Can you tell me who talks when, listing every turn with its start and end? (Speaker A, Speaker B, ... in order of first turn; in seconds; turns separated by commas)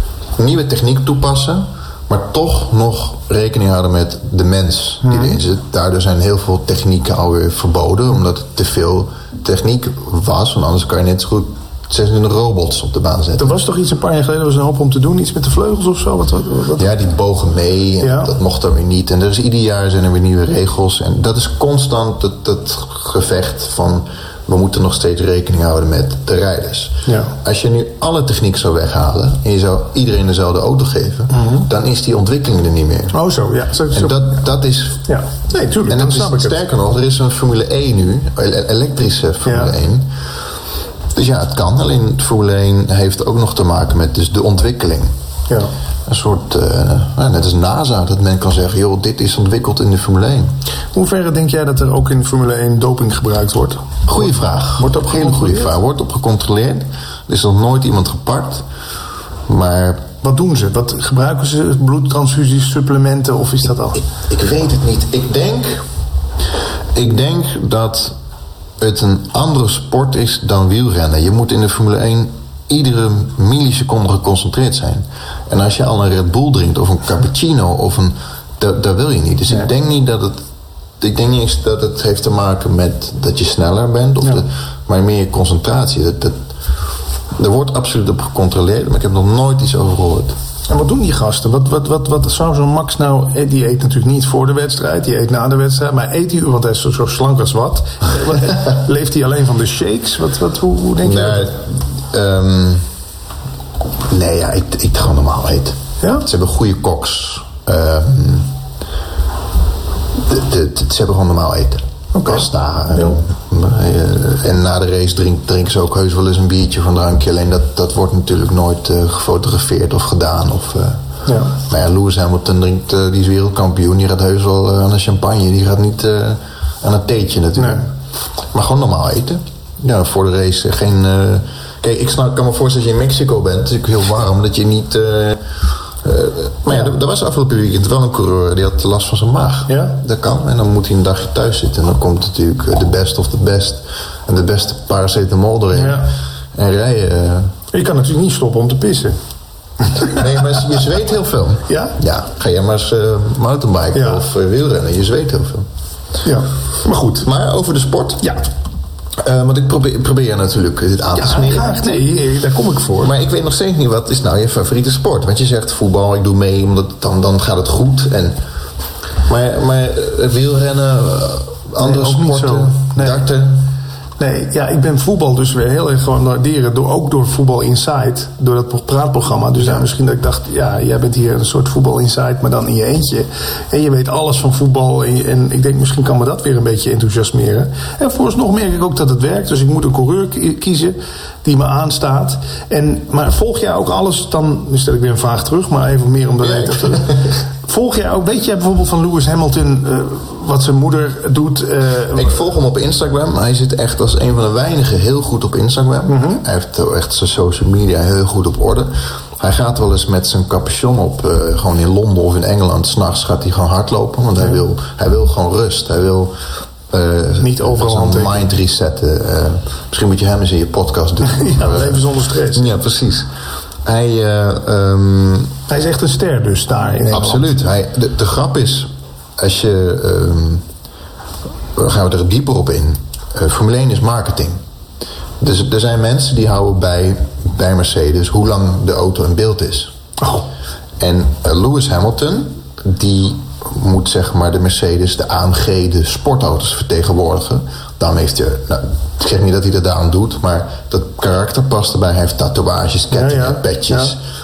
Speaker A: 0.4-13.6, Speaker B: 5.0-5.4, Speaker B: 13.4-16.8, Speaker A: 16.8-33.1, Speaker B: 18.0-18.3, Speaker B: 27.1-27.3, Speaker B: 31.3-31.7, Speaker B: 33.1-34.3, Speaker A: 33.9-35.0, Speaker B: 35.1-36.6, Speaker A: 35.9-40.1, Speaker B: 39.4-39.7, Speaker A: 41.1-45.1, Speaker A: 46.0-50.5, Speaker B: 50.9-55.7, Speaker A: 54.1-58.6, Speaker A: 59.5-60.0, Speaker B: 60.2-64.0, Speaker A: 64.0-65.8, Speaker A: 66.9-68.1, Speaker A: 68.8-80.4, Speaker A: 81.0-86.4, Speaker A: 87.3-90.3, Speaker B: 90.7-101.5, Speaker A: 101.0-102.8, Speaker A: 104.1-108.5, Speaker B: 106.0-106.2, Speaker A: 110.2-121.0, Speaker B: 112.1-113.2, Speaker B: 121.2-121.5, Speaker A: 121.5-127.9, Speaker B: 127.6-127.8, Speaker A: 128.5-135.4, Speaker A: 136.0-147.5, Speaker B: 139.7-139.9, Speaker B: 145.7-146.1, Speaker B: 147.7-149.2, Speaker B: 149.9-150.2, Speaker A: 150.1-155.7, Speaker B: 151.7-151.9, Speaker B: 153.9-154.2, Speaker B: 156.2-157.3, Speaker A: 157.2-158.3, Speaker A: 159.2-162.0, Speaker B: 161.1-163.1, Speaker A: 163.0-168.4, Speaker A: 169.2-173.7, Speaker B: 171.8-173.2, Speaker B: 174.2-202.4, Speaker A: 196.4-197.2, Speaker A: 202.1-216.3, Speaker B: 206.1-206.4, Speaker A: 216.9-223.3, Speaker B: 217.4-218.5, Speaker B: 221.2-222.7, Speaker A: 223.8-225.5, Speaker B: 225.7-227.5, Speaker A: 227.1-230.6, Speaker A: 231.7-234.6, Speaker A: 235.4-239.9, Speaker B: 240.2-240.4, Speaker A: 241.0-254.2, Speaker B: 253.1-254.1